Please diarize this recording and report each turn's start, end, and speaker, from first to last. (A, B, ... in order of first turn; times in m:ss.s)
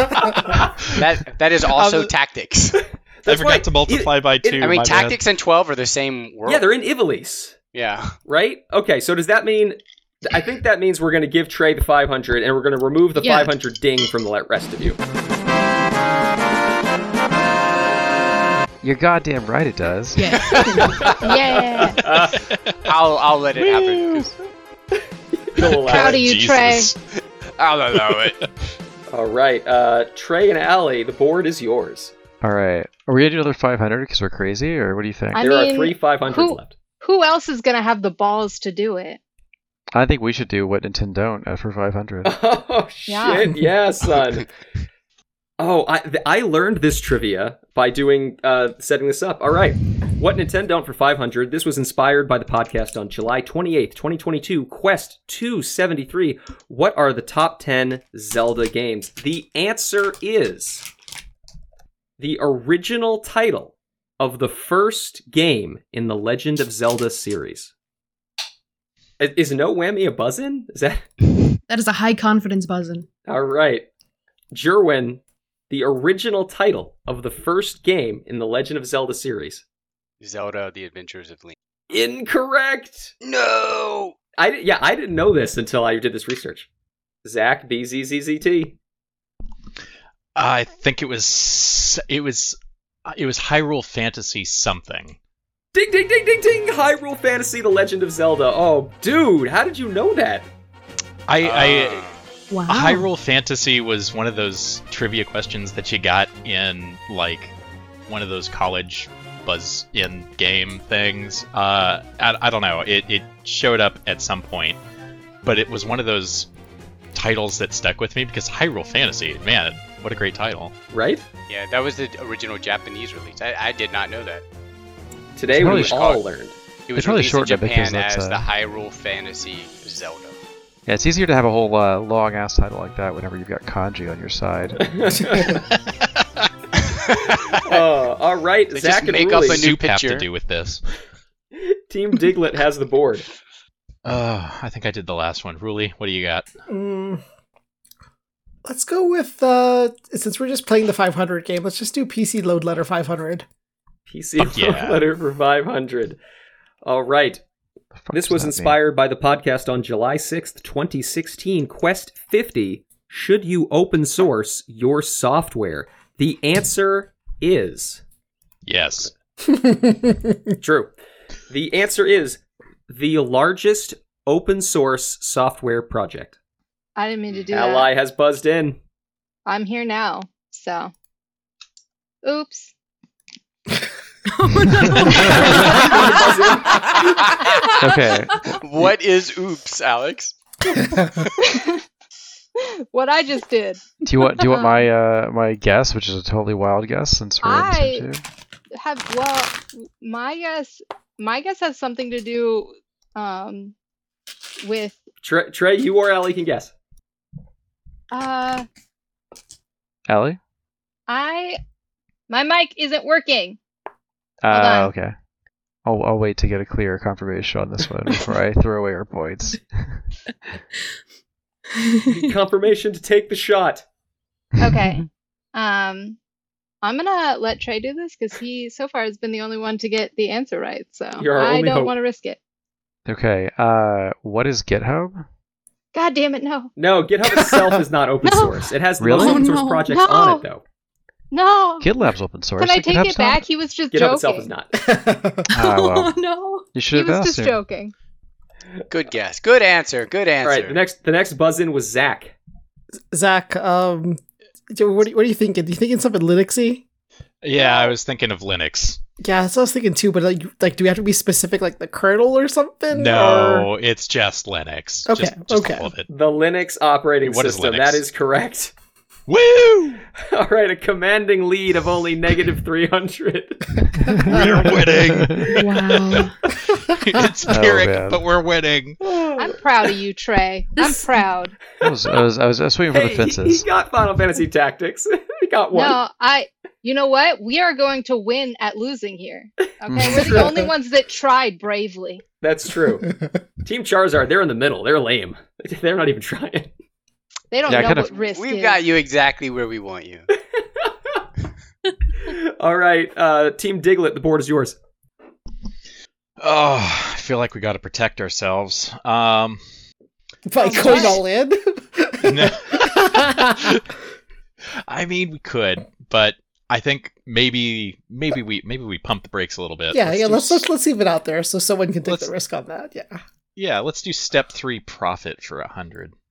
0:00.4-0:01.0 A
0:01.0-0:02.8 B
0:01.7-0:02.1 A
0:03.2-0:04.7 C
0:03.2-0:05.2 A
0:04.6-0:06.6 B
0:06.4-0:07.5 C
0:07.7-0:08.2 B
0:08.2-0:15.0 C
0:13.2-0:13.5 D
0:18.8-0:20.9 E
0:20.2-0:20.6 D
0:20.6-0:21.4 C
0:20.8-0:22.6 A
0:21.2-0:22.0 F
0:22.0-0:22.4 C
0:22.8-0:24.3 B
0:23.7-0:24.2 A
0:24.9-0:26.2 C
0:25.7-0:26.9 A
0:25.9-0:26.9 F
0:27.6-0:28.5 B
0:27.9-0:28.4 A
0:29.1-0:32.1 C
0:32.4-0:35.4 E
0:35.3-0:39.2 F
0:35.4-0:36.8 C
0:39.9-0:42.4 E
0:42.2-0:44.5 C
0:43.1-0:43.5 F
0:45.6-1:00.9 C
1:02.2-1:07.7 C
1:09.2-1:11.1 C
1:11.7-1:13.1 D
1:13.2-1:13.8 C
1:14.5-1:19.6 C
1:20.2-1:21.6 B
1:21.9-1:23.1 C
1:23.2-1:24.1 B
1:24.4-1:26.7 C
1:27.2-1:28.7 C
1:30.3-1:35.2 A
1:35.7-1:40.5 C
1:41.3-1:42.1 A
1:41.4-1:42.2 B
1:42.5-1:43.1 D
1:42.7-1:47.5 A
1:48.1-1:54.8 A
1:55.4-1:56.5 A
1:57.1-2:00.7 A
2:00.9-2:01.2 C
2:01.5-2:04.4 B
2:05.4-2:06.5 C
2:05.5-2:06.2 E
2:06.9-2:10.4 B
2:06.9-2:08.5 E
2:10.8-2:14.8 E
2:14.8-2:15.6 C
2:17.6-2:19.7 C
2:18.7-2:20.3 B
2:19.3-2:20.8 A
2:21.6-2:23.3 C
2:24.0-2:26.5 A
2:26.7-2:27.2 G
2:28.6-2:33.4 G
2:34.1-2:36.2 C
2:34.4-2:35.0 A
2:36.8-2:37.4 C
2:38.0-2:38.8 E
2:38.1-2:48.0 C
2:48.6-2:49.1 A
2:49.5-2:50.4 G
2:50.6-2:50.9 C
2:51.5-2:56.4 C
2:57.0-2:57.9 F
2:57.5-2:58.8 C
2:59.4-3:00.9 F
3:02.2-3:02.7 F
3:04.3-3:06.1 D
3:05.2-3:07.3 C
3:07.6-3:08.6 E
3:08.5-3:10.3 B
3:10.9-3:11.2 G
3:11.4-3:11.8 F
3:12.6-3:13.8 F
3:14.0-3:18.2 E
3:14.4-3:14.9 F
3:17.4-3:18.1 F
3:18.8-3:23.7 F
3:24.6-3:25.0 F
3:25.2-3:26.7 C
3:28.1-3:28.7 F
3:30.1-3:30.4 E
3:31.1-3:31.6 F
3:32.3-3:33.6 F
3:34.4-3:35.1 E
3:34.5-3:34.9 F
3:35.8-3:39.6 E
3:41.8-3:42.2 D
3:42.1-3:43.8 C
3:44.6-3:46.2 F
3:46.8-3:52.4 F
3:51.2-3:51.9 C
3:53.0-3:55.2 E
3:55.9-3:56.7 F
3:56.8-4:00.6 C
3:57.3-3:57.8 G
3:58.2-3:58.5 F
3:59.0-3:59.6 E
3:59.1-3:59.8 D
3:59.9-4:00.4 F
4:01.3-4:01.9 F
4:01.8-4:03.4 E
4:02.6-4:04.5 F
4:03.9-4:04.7 C
4:04.7-4:05.5 G
4:05.5-4:06.6 D
4:05.5-4:06.2 E
4:06.7-4:07.6 E
4:06.9-4:07.9 F
4:08.9-4:10.8 B
4:10.4-4:12.3 C
4:13.1-4:16.8 G
4:17.4-4:19.0 A
4:19.2-4:23.7 G
4:22.9-4:26.1 A
4:25.0-4:25.9 G
4:26.1-4:28.7 C
4:27.2-4:28.0 A
4:29.3-4:30.0 A
4:30.2-4:34.1 C
4:34.2-4:36.2 A
4:35.0-4:35.5 E
4:35.5-4:36.4 D
4:36.9-4:39.0 A
4:37.5-4:38.2 E
4:39.0-4:39.5 C
4:39.4-4:41.6 F
4:40.7-4:41.2 D
4:41.8-4:43.6 E
4:42.9-4:46.0 C
4:45.7-4:52.2 F
4:49.9-4:50.6 E
4:52.4-4:53.1 C
4:53.6-4:56.7 C
4:57.5-4:58.8 F
4:57.7-4:58.1 E
4:57.7-5:00.3 B
5:02.2-5:04.8 C
5:06.4-5:09.6 A
5:10.4-5:13.7 G
5:10.6-5:11.2 F
5:10.7-5:11.1 D
5:12.2-5:13.8 A
5:14.9-5:20.7 A
5:19.9-5:23.2 G
5:23.6-5:26.1 A